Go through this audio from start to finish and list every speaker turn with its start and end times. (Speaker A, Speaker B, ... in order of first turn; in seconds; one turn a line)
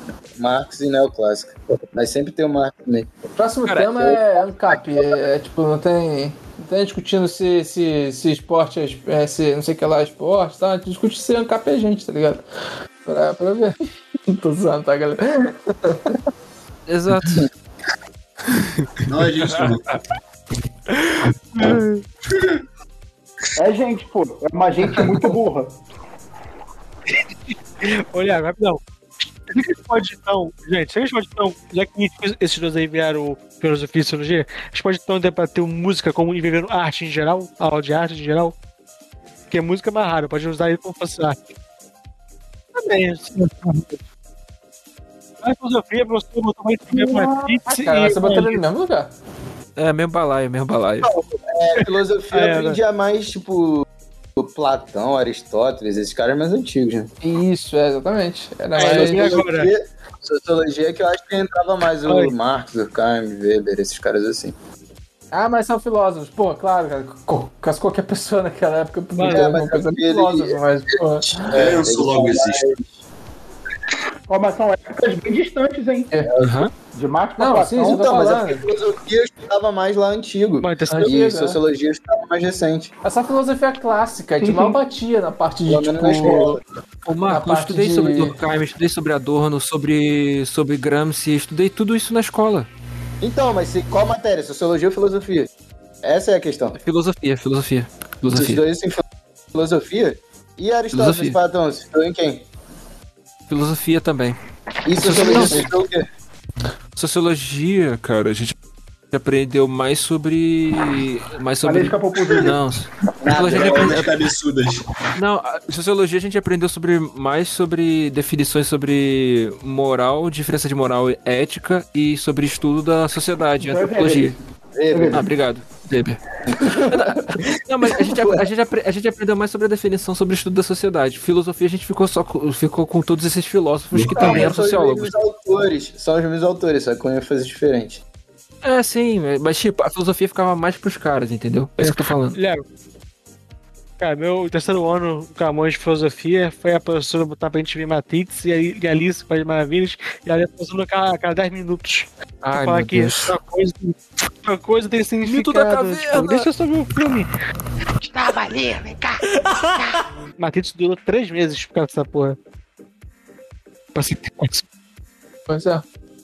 Speaker A: 0.4-3.1
Speaker B: 3.4-12.4
Speaker A: 4.0-4.2
Speaker B: 13.1-16.2
Speaker C: 16.9-17.5
Speaker D: 19.1-19.9
Speaker C: 19.4-19.7
Speaker C: 20.9-21.2
Speaker E: 21.6-22.0
Speaker F: 23.6-25.8
Speaker E: 27.1-28.8
Speaker E: 29.5-38.5
Speaker E: 39.5-41.4
Speaker E: 42.8-44.0
Speaker E: 45.4-48.6
Speaker F: 47.0-47.5
Speaker B: 47.7-49.1
Speaker C: 49.8-51.1
Speaker A: 51.0-57.1
Speaker E: 52.3-52.8
Speaker B: 57.2-59.4
Speaker E: 58.8-59.7
Speaker A: 58.8-64.5
Speaker E: 62.1-62.3
Speaker B: 65.3-71.5
Speaker E: 69.2-69.6
Speaker A: 69.3-70.6
Speaker D: 71.4-72.7
Speaker A: 71.5-72.8
Speaker F: 74.3-76.1
Speaker A: 76.3-76.6
Speaker C: 76.4-76.7
Speaker F: 76.9-78.1
Speaker B: 77.4-78.7
Speaker A: 77.8-82.9
Speaker E: 80.6-81.3
Speaker B: 80.9-81.6
Speaker B: 83.0-86.6
Speaker F: 84.4-84.8
Speaker A: 85.7-86.6
Speaker C: 87.1-92.7
Speaker B: 87.3-88.4
Speaker A: 93.2-95.5
Speaker A: 96.0-96.8
Speaker C: 96.8-98.6
Speaker A: 98.3-102.4
Speaker C: 100.9-101.4
Speaker C: 103.5-104.4
Speaker A: 104.8-106.1
Speaker C: 105.0-105.7
Speaker C: 107.0-108.5
Speaker C: 109.1-114.1
Speaker F: 111.6-112.6
Speaker A: 113.2-114.0
Speaker D: 113.5-114.9
Speaker C: 115.2-124.4
Speaker F: 123.6-124.4
Speaker A: 124.7-125.2
Speaker F: 124.9-125.3
Speaker C: 125.1-126.2
Speaker A: 126.5-127.1
Speaker C: 126.8-135.1
Speaker A: 128.1-128.5
Speaker D: 133.9-134.5
Speaker A: 134.2-138.0
Speaker C: 138.6-142.4
Speaker E: 141.8-142.6
Speaker E: 144.0-157.3
Speaker C: 152.4-153.3
Speaker C: 155.2-156.5
Speaker E: 158.0-159.2
Speaker E: 160.4-162.4
Speaker E: 163.9-164.6
Speaker B: 165.5-165.8